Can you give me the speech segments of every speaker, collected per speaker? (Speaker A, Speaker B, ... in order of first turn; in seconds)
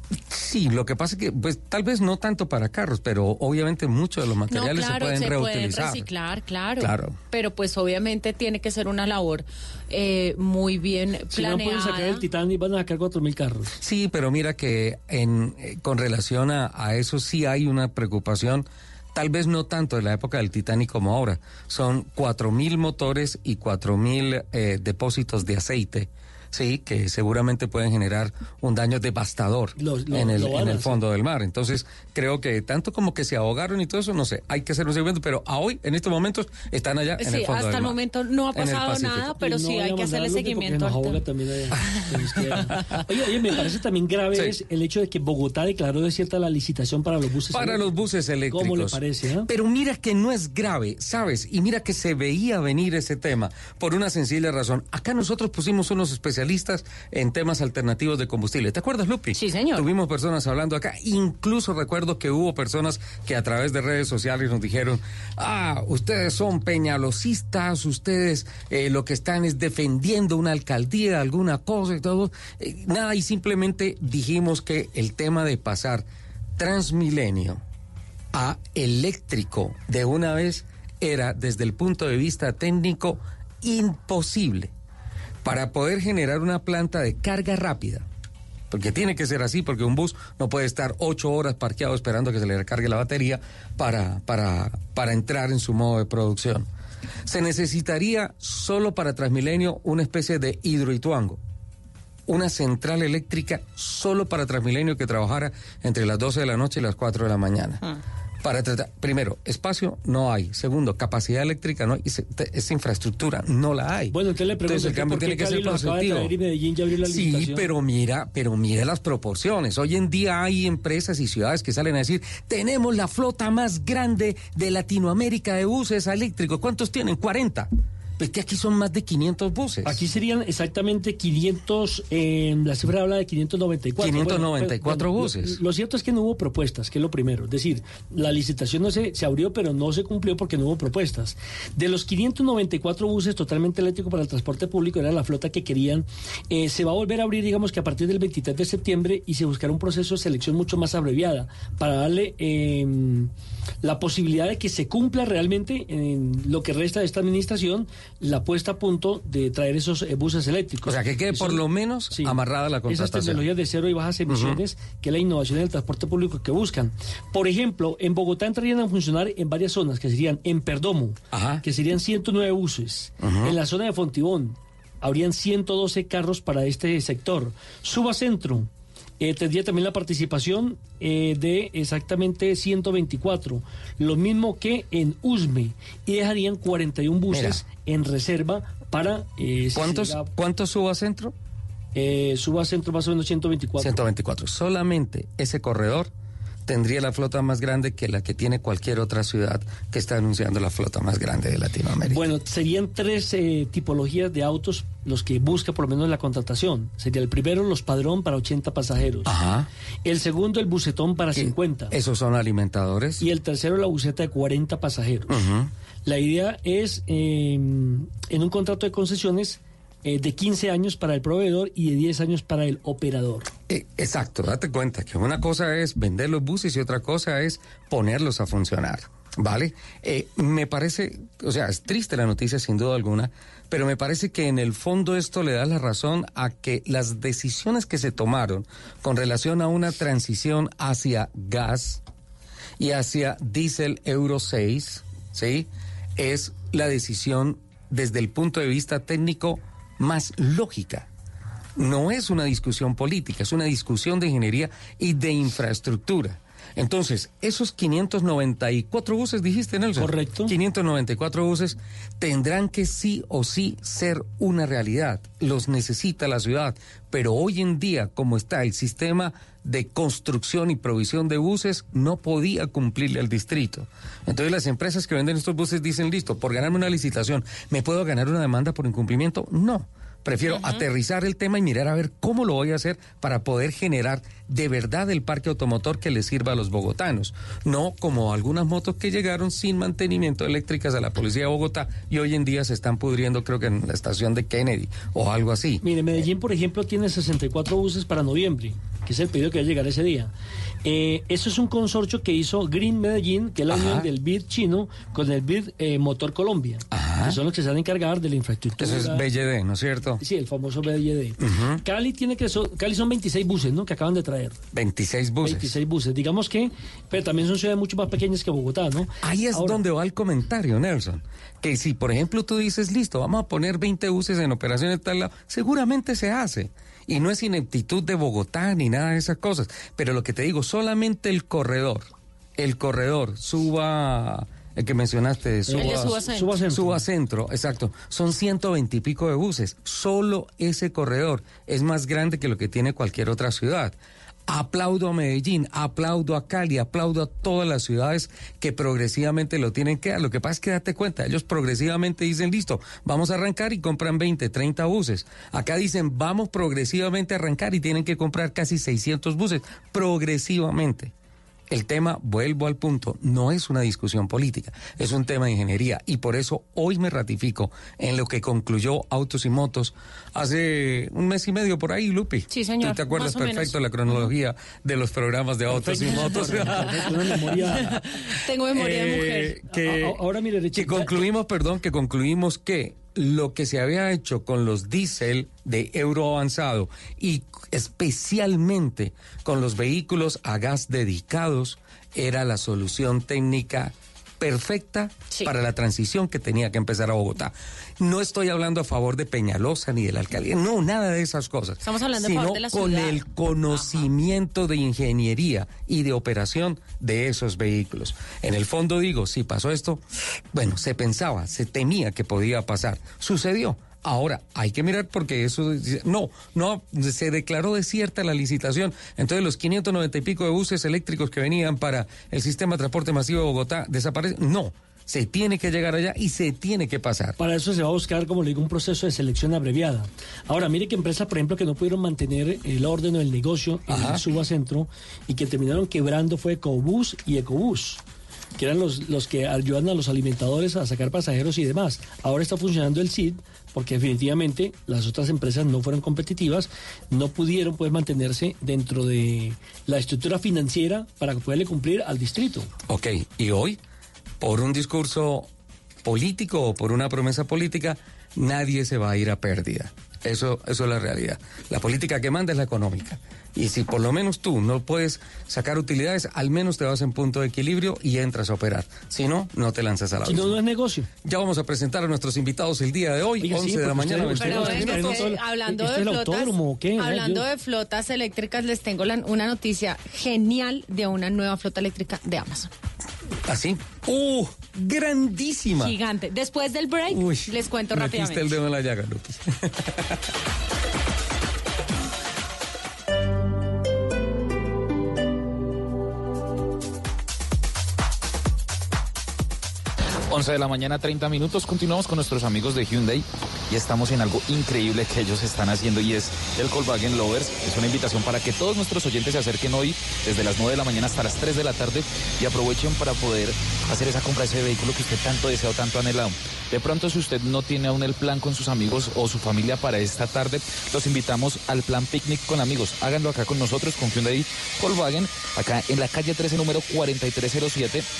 Speaker A: 0.3-6.1, 6.8-7.2, 13.8-38.0, 38.5-39.3, 47.5-76.0, 76.6-77.6, 78.3-84.7, 85.4-88.0, 88.7-96.7, 97.2-101.4, 102.3-107.8, 108.4-114.1, 114.7-116.3, 117.0-127.7, 128.2-130.0, 134.0-135.6, 160.8-163.4, 164.3-164.6, 171.3-171.6, 173.2-173.6, 187.3-187.6, 189.8-191.3, 193.8-196.1, 196.7-202.2, 209.2-209.7, 211.3-213.3, 215.3-215.7, 223.7-242.0, 242.8-251.1, 251.8-295.8, 303.7-304.1, 306.9-307.4, 308.8-310.2, 311.4-311.8, 314.7-315.7, 319.2-332.1, 332.6-343.9, 344.5-361.1, 361.7-377.1, 378.7-380.1, 380.8-410.0, 410.5-427.4, 433.9-434.2, 452.9-453.8, 454.4-455.5, 456.0-470.6, 471.2-475.3, 483.5-485.9, 487.1-490.1
Speaker B: 4.5-12.2, 37.2-41.2, 59.3-59.9, 280.5-280.9, 335.7-336.5, 372.5-374.3, 378.4-379.6, 401.8-404.1, 474.4-482.7, 485.8-488.6
Speaker C: 11.3-13.7, 29.8-30.9, 39.4-47.9, 48.5-49.5, 114.1-117.7, 129.8-153.3, 153.8-178.7, 179.2-190.3, 191.9-194.0, 202.1-209.3, 210.0-211.9, 213.2-215.3, 216.0-223.5, 260.0-260.5, 295.8-300.3, 300.8-309.2, 310.2-314.6, 315.4-319.8, 335.7-337.0, 375.7-378.0, 379.7-381.1, 427.4-438.0, 438.6-452.7, 470.2-471.1, 473.4-477.4
Speaker D: 500.3-528.0